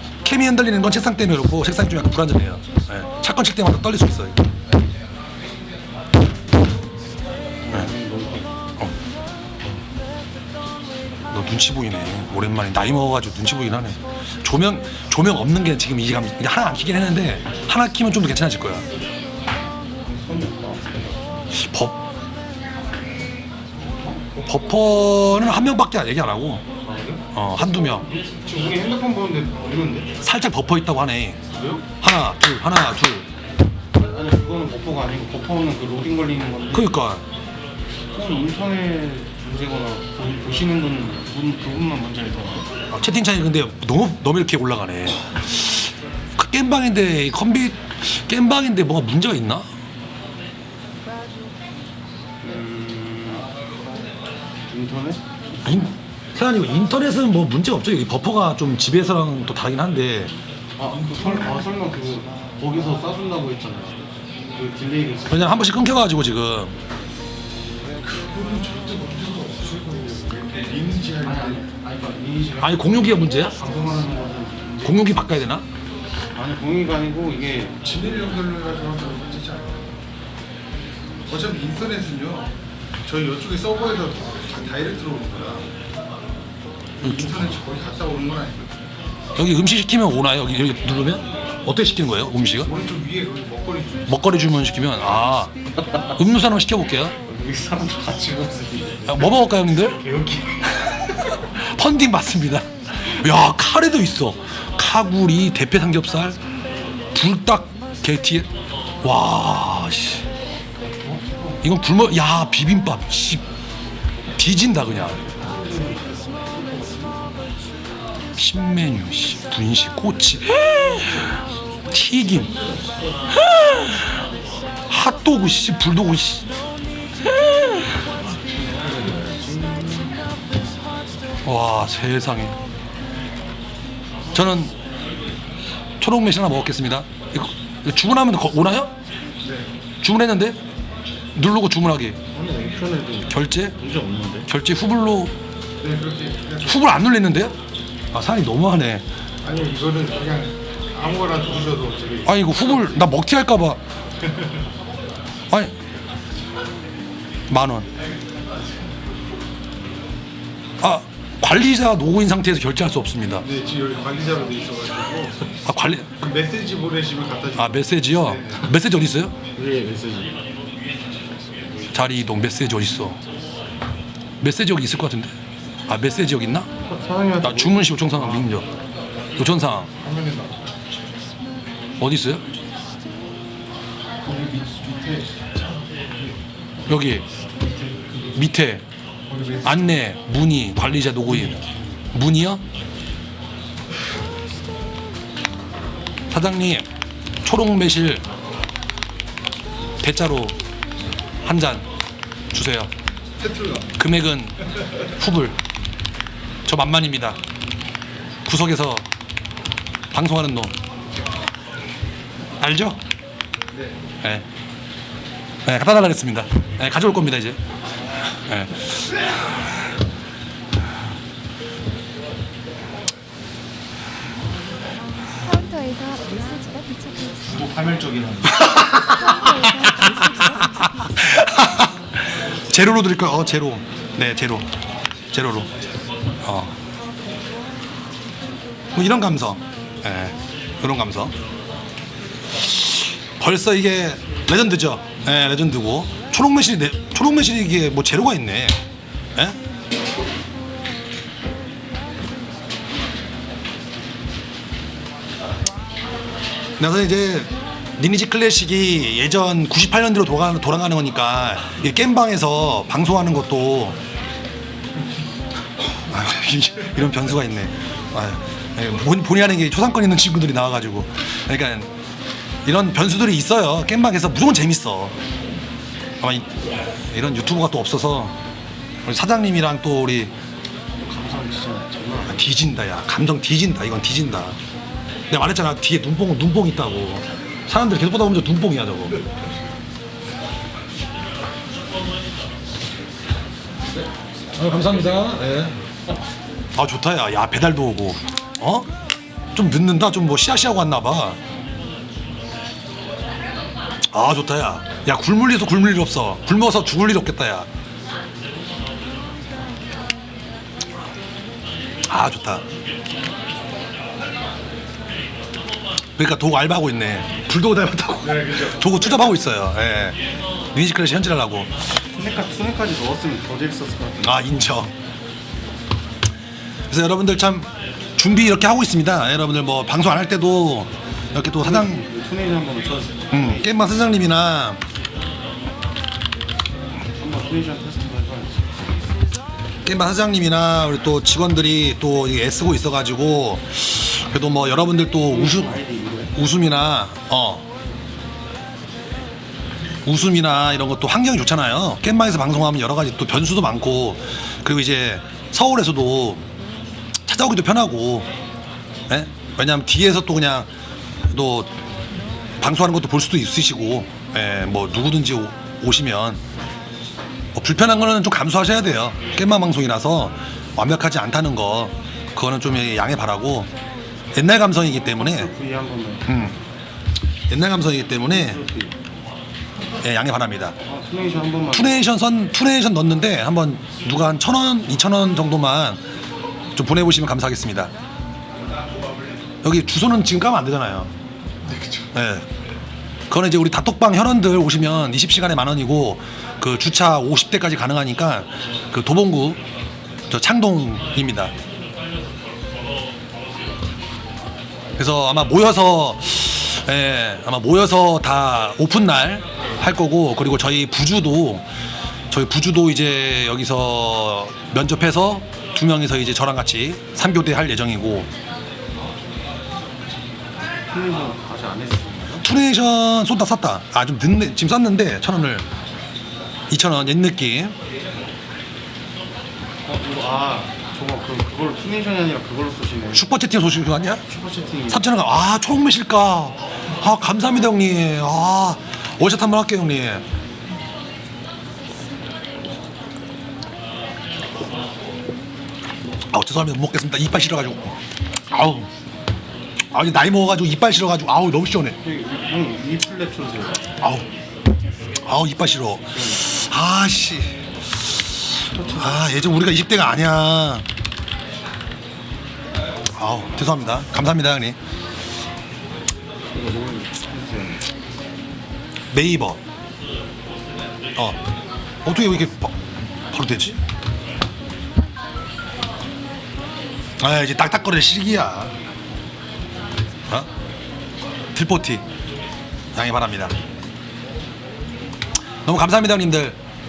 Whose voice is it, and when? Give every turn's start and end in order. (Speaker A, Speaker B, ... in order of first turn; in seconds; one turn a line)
Speaker A: 0.2-4.4
Speaker B: 7.6-8.6
Speaker A: 11.3-18.9
Speaker B: 20.0-21.3
Speaker A: 21.5-22.0
Speaker A: 24.4-26.6
Speaker B: 26.8-27.2
Speaker A: 27.3-28.1
Speaker B: 27.8-30.1
Speaker A: 30.2-31.4
Speaker B: 31.5-31.8
Speaker A: 32.0-33.3
Speaker B: 34.0-36.9
Speaker A: 36.7-37.2
Speaker B: 38.1-42.7
Speaker A: 42.9-49.7
Speaker B: 52.4-53.5
Speaker B: 54.7-55.2
Speaker A: 55.6-60.3
Speaker B: 60.8-65.7
Speaker C: 60.9-61.5
Speaker A: 65.3-66.8
Speaker C: 68.0-71.7
Speaker B: 71.2-75.0
Speaker A: 72.6-73.6
Speaker A: 74.8-75.7
Speaker B: 76.3-77.8
Speaker C: 77.8-79.9
Speaker C: 81.3-82.5
Speaker C: 83.0-85.7
Speaker A: 87.0-87.5
Speaker C: 87.0-88.8
Speaker A: 89.4-92.7
Speaker C: 92.6-94.1
Speaker A: 94.1-95.5
Speaker A: 96.2-97.2
Speaker B: 97.3-100.8
Speaker A: 99.1-100.0
Speaker A: 100.9-106.4
Speaker A: 107.1-108.5
Speaker A: 109.0-110.2
Speaker B: 110.8-111.6
Speaker A: 111.6-113.4
Speaker A: 114.4-115.2
Speaker B: 115.3-117.2
Speaker A: 118.4-121.2
Speaker B: 121.0-121.4
Speaker A: 121.9-122.5
Speaker A: 123.3-124.1
Speaker A: 124.9-126.5
Speaker A: 127.3-127.8
Speaker B: 128.5-130.2
Speaker A: 131.4-132.6
Speaker A: 134.3-134.8
Speaker A: 136.0-138.9
Speaker C: 139.4-139.7
Speaker A: 140.0-140.6
Speaker A: 141.3-142.2
Speaker B: 142.3-144.5
Speaker A: 143.3-143.8
Speaker A: 144.5-145.3
Speaker C: 145.8-146.8
Speaker A: 146.6-147.6
Speaker A: 148.1-149.1
Speaker C: 149.4-152.4
Speaker A: 152.2-153.8
Speaker A: 155.5-155.8
Speaker A: 157.5-157.9
Speaker A: 160.8-163.5
Speaker C: 163.4-165.5
Speaker A: 165.7-166.2
Speaker C: 166.2-168.7
Speaker A: 167.6-169.3
Speaker B: 169.6-170.3
Speaker A: 171.9-173.2
Speaker A: 174.4-175.3
Speaker A: 175.9-176.7
Speaker B: 176.8-178.5
Speaker A: 177.4-178.7
Speaker A: 179.4-179.9
Speaker C: 180.0-180.6
Speaker A: 182.0-182.5
Speaker C: 184.3-186.3
Speaker A: 186.9-187.3
Speaker C: 187.7-188.4
Speaker A: 188.3-188.8
Speaker C: 189.3-189.7
Speaker A: 189.6-192.6
Speaker A: 196.3-196.9
Speaker A: 197.4-198.2
Speaker A: 200.0-200.6
Speaker A: 201.4-201.9
Speaker A: 202.5-202.9
Speaker C: 203.4-204.0
Speaker A: 204.0-205.6
Speaker A: 206.7-207.4
Speaker A: 208.4-209.1
Speaker A: 210.1-210.8
Speaker A: 212.6-213.0
Speaker C: 213.7-214.0
Speaker A: 215.7-217.6
Speaker A: 218.2-219.3
Speaker D: 225.3-227.5
Speaker B: 227.5-228.8
Speaker A: 228.6-234.7
Speaker D: 229.1-231.1
Speaker A: 235.3-235.7
Speaker A: 236.4-236.8
Speaker A: 238.9-241.3
Speaker A: 242.6-248.8
Speaker A: 256.8-264.0
Speaker A: 266.0-271.9
Speaker A: 272.6-275.2
Speaker A: 276.2-276.5
Speaker A: 277.1-278.4
Speaker A: 279.1-280.3
Speaker B: 281.0-282.5
Speaker A: 282.3-284.6
Speaker A: 285.3-289.2
Speaker A: 294.6-295.8
Speaker A: 296.8-298.9
Speaker A: 299.5-301.4
Speaker A: 304.1-307.7
Speaker A: 312.1-312.6
Speaker A: 316.2-320.2
Speaker C: 318.2-319.2
Speaker A: 320.7-321.8
Speaker B: 322.1-324.5
Speaker A: 324.2-324.9
Speaker A: 326.9-332.0
Speaker B: 331.5-333.9
Speaker A: 333.3-334.8
Speaker B: 337.1-338.8
Speaker A: 339.9-345.8
Speaker B: 345.3-346.3
Speaker A: 346.4-347.7
Speaker A: 350.1-356.5
Speaker A: 357.2-358.3
Speaker A: 359.1-360.7
Speaker A: 361.3-361.7
Speaker A: 362.6-366.4
Speaker A: 367.6-373.7
Speaker A: 374.3-375.5
Speaker B: 375.0-376.3
Speaker A: 376.3-376.6
Speaker A: 377.5-378.6
Speaker B: 378.2-378.9
Speaker A: 380.0-380.8
Speaker B: 380.8-382.0
Speaker A: 381.7-386.0
Speaker A: 386.8-387.9
Speaker A: 389.6-391.1
Speaker A: 392.1-392.5
Speaker A: 393.3-399.6
Speaker A: 400.3-401.5
Speaker A: 405.0-411.7
Speaker A: 412.3-418.3
Speaker B: 420.9-422.5
Speaker A: 422.4-425.7
Speaker A: 426.7-427.8
Speaker B: 429.9-433.3
Speaker A: 433.1-434.2
Speaker B: 434.3-435.1
Speaker A: 434.9-440.2
Speaker A: 446.3-448.0
Speaker A: 448.5-448.9
Speaker A: 449.9-452.0
Speaker B: 452.0-453.9
Speaker A: 455.2-460.9
Speaker B: 456.1-456.5
Speaker B: 458.7-459.5
Speaker A: 463.1-464.8
Speaker B: 466.5-467.8
Speaker A: 469.1-469.6
Speaker A: 472.0-472.8
Speaker A: 473.3-473.8
Speaker A: 477.2-478.8
Speaker A: 481.5-482.1
Speaker A: 482.9-483.6
Speaker A: 485.6-486.6